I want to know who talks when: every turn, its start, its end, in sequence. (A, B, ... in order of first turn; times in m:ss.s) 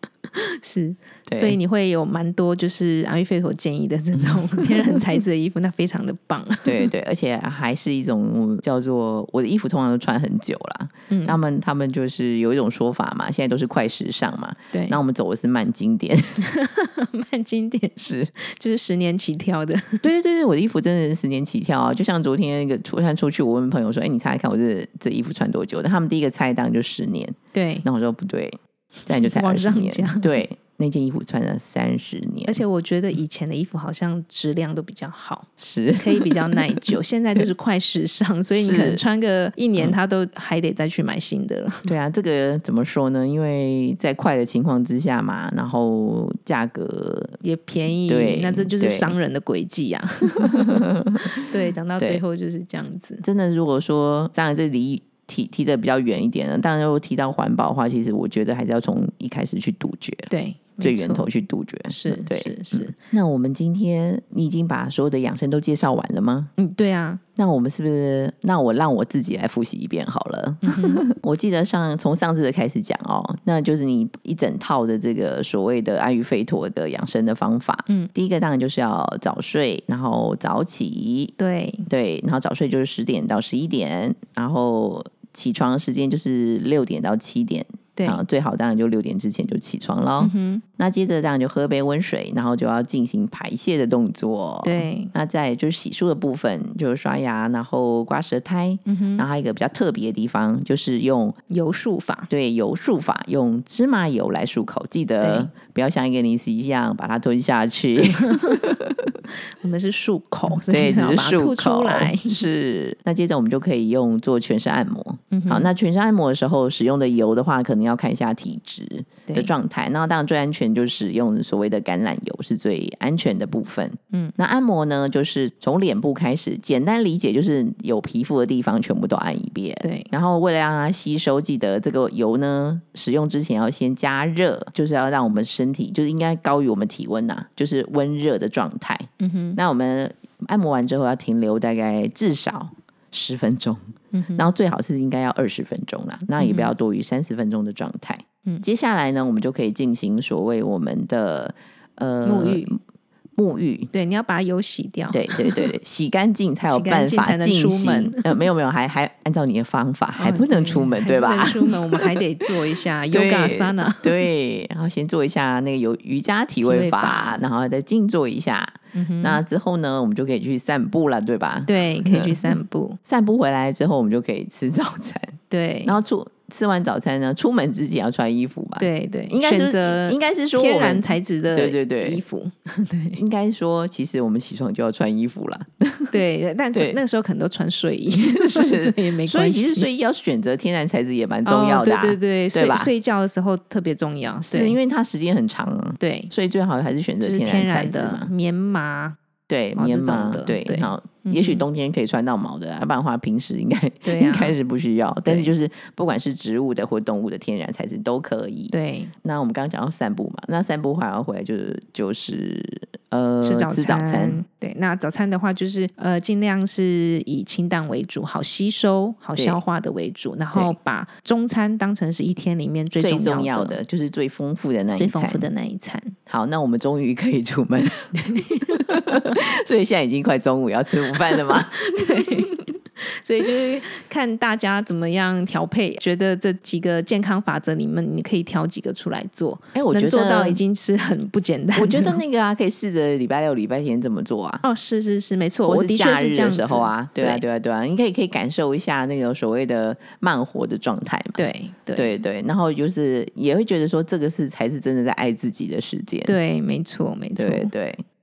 0:00.3-0:06.9 A
0:01.3-0:01.6 B
0:06.6-0:16.5 B
0:11.1-0:11.4 A
0:14.7-0:15.0 A
0:16.4-0:20.0 A
0:18.0-0:18.3 B
0:20.0-0:32.6 B
0:27.5-0:27.8 A
0:29.1-0:30.4 A
0:32.5-0:41.9 A
0:35.6-0:36.9 B
0:38.5-0:39.0 B
0:41.8-0:47.4 B
0:47.4-0:53.2 A
0:48.0-0:49.1 B
0:50.3-0:51.4 B
0:53.2-1:06.5 B
1:00.3-1:01.3 A
1:01.9-1:03.0 A
1:06.6-1:07.2 A
1:07.4-1:21.3 B
1:10.6-1:11.0 A
1:21.4-1:21.9 A
1:21.9-1:41.4 B
1:28.0-1:28.2 A
1:30.2-1:30.6 A
1:34.6-1:35.1 A
1:38.8-1:39.2 A
1:41.5-1:42.3 A
1:42.3-1:49.2 B
1:45.2-1:45.5 A
1:48.0-1:48.6 A
1:49.6-1:52.4 A
1:50.5-2:32.8 B
1:55.3-1:55.7 A
2:09.8-2:10.1 A
2:19.2-2:19.6 A
2:24.1-2:24.5 A
2:26.4-2:26.7 A
2:32.2-2:32.7 A
2:33.4-2:33.9 B
2:33.9-2:35.7 A
2:35.1-2:42.5 B
2:36.7-2:38.4 A
2:40.2-2:44.2 A
2:43.1-3:02.2 B
2:46.6-2:47.4 A
2:48.9-2:49.4 A
2:51.7-2:53.0 A
2:55.5-2:55.9 A
2:58.8-3:03.2 A
3:03.2-3:06.2 B
3:06.1-3:09.9 A
3:06.7-3:07.0 B
3:08.1-3:12.9 B
3:11.4-3:14.8 A
3:14.5-3:18.3 B
3:16.0-3:16.3 A
3:17.2-3:19.2 A
3:19.5-3:34.4 B
3:19.7-3:21.6 A
3:24.0-3:24.6 A
3:25.2-3:25.5 A
3:28.7-3:29.1 A
3:33.4-3:43.8 A
3:43.0-3:45.5 B
3:45.0-3:46.1 A
3:46.3-3:52.6 B
3:48.1-3:49.4 A
3:51.2-4:02.2 A
3:59.7-4:00.6 B
4:01.7-4:04.6 B
4:04.6-4:07.4 A
4:05.6-4:11.4 B
4:11.4-4:12.1 A
4:11.9-4:16.4 B
4:16.3-4:17.7 A
4:17.4-4:18.0 B